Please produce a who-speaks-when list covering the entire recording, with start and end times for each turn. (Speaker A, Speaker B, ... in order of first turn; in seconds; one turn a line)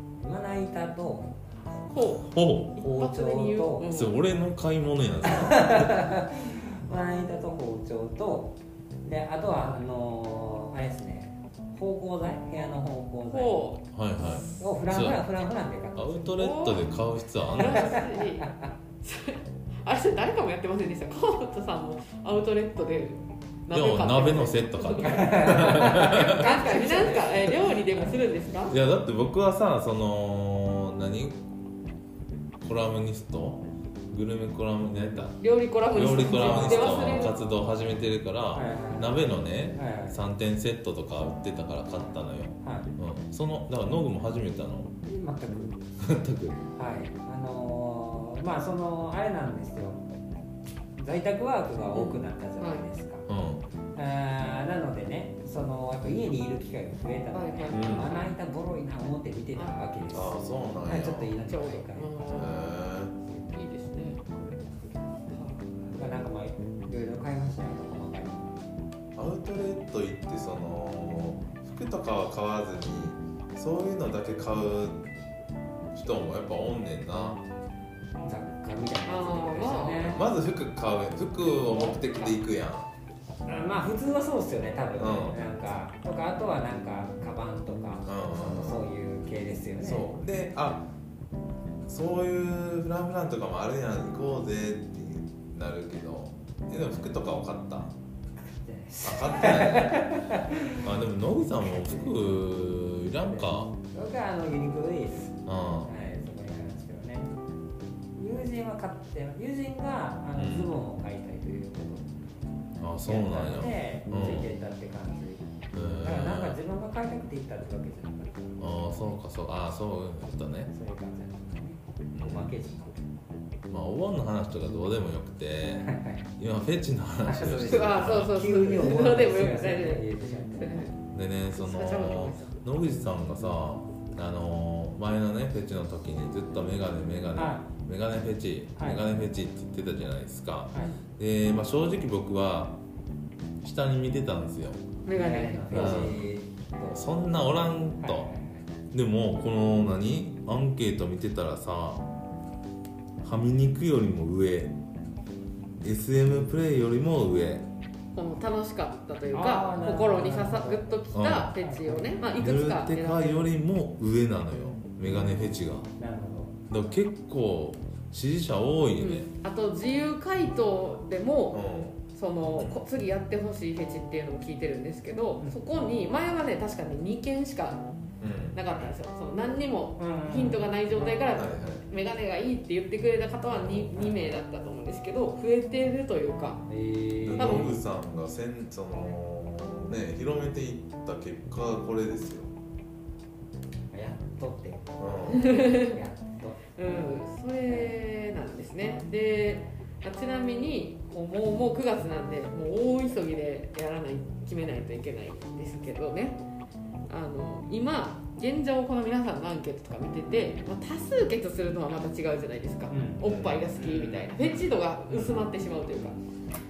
Speaker A: 0.2-1.8
Speaker B: 1.9-4.1
Speaker C: 2.2-2.7
Speaker A: 2.8-3.9
Speaker C: 3.9-6.0
Speaker A: 5.3-13.6
Speaker B: 13.3-13.8
Speaker C: 13.9-15.2
Speaker A: 14.6-16.6
Speaker C: 15.9-18.0
Speaker B: 16.4-16.8
Speaker B: 17.5-28.8
Speaker A: 17.9-18.5
Speaker C: 23.7-26.5
Speaker A: 25.0-28.1
Speaker C: 28.7-31.4
Speaker C: 32.6-35.4
Speaker B: 35.4-37.3
Speaker C: 35.9-44.9
Speaker A: 36.2-37.3
Speaker A: 38.5-40.2
Speaker A: 42.6-42.9
Speaker A: 45.0-46.0
Speaker C: 46.0-46.6
Speaker A: 46.7-50.0
Speaker A: 51.0-53.3
Speaker B: 51.9-52.8
Speaker C: 53.3-53.6
Speaker A: 53.9-62.5
Speaker B: 57.3-58.2
Speaker C: 57.7-58.2
Speaker C: 60.1-61.3
Speaker B: 61.5-62.8
Speaker C: 62.4-63.1
Speaker B: 63.5-64.2
Speaker B: 65.3-66.2
Speaker A: 65.9-68.7
Speaker C: 69.2-75.1
Speaker C: 75.9-77.4
Speaker A: 78.2-80.2
Speaker B: 79.0-80.1
Speaker C: 80.0-82.9
Speaker B: 81.7-82.3
Speaker A: 83.5-90.1
Speaker C: 85.0-85.4
Speaker C: 88.0-88.8
Speaker C: 89.8-90.9
Speaker C: 91.9-97.9
Speaker A: 98.5-100.9
Speaker C: 99.0-100.2
Speaker C: 100.8-103.8
Speaker A: 101.7-102.1
Speaker A: 103.4-107.3
Speaker C: 105.5-105.9
Speaker A: 108.2-112.2
Speaker C: 110.3-110.7
Speaker C: 112.8-114.5
Speaker A: 113.0-115.4
Speaker C: 115.7-116.6
Speaker A: 116.0-118.6
Speaker C: 118.6-120.7
Speaker A: 120.7-123.1
Speaker C: 122.2-122.5
Speaker C: 123.7-128.3
Speaker A: 125.8-126.3
Speaker A: 127.2-130.7
Speaker B: 127.6-130.9
Speaker C: 131.1-142.8
Speaker B: 131.6-132.6
Speaker A: 137.4-137.6
Speaker A: 138.8-139.0
Speaker C: 143.6-144.8
Speaker B: 145.1-146.1
Speaker A: 145.1-147.2
Speaker C: 145.7-146.2
Speaker C: 146.9-148.3
Speaker A: 148.0-148.6
Speaker C: 148.9-152.1
Speaker C: 153.2-154.7
Speaker C: 155.8-157.6
Speaker B: 158.1-163.4
Speaker A: 159.3-160.8
Speaker C: 161.1-161.5
Speaker A: 161.4-162.2
Speaker C: 162.3-165.9
Speaker A: 166.0-166.6
Speaker C: 166.7-169.3
Speaker B: 169.0-177.8
Speaker C: 171.5-172.0
Speaker C: 178.2-178.6
Speaker B: 178.5-186.6
Speaker A: 180.0-181.2
Speaker C: 181.3-181.8
Speaker C: 183.5-183.9
Speaker A: 186.7-187.7
Speaker C: 187.2-192.5
Speaker B: 187.4-187.7
Speaker A: 193.9-197.9
Speaker C: 195.0-195.5
Speaker B: 195.3-196.0
Speaker B: 196.8-206.4
Speaker B: 207.1-216.2
Speaker A: 212.9-213.2
Speaker C: 213.2-213.6
Speaker A: 213.8-214.7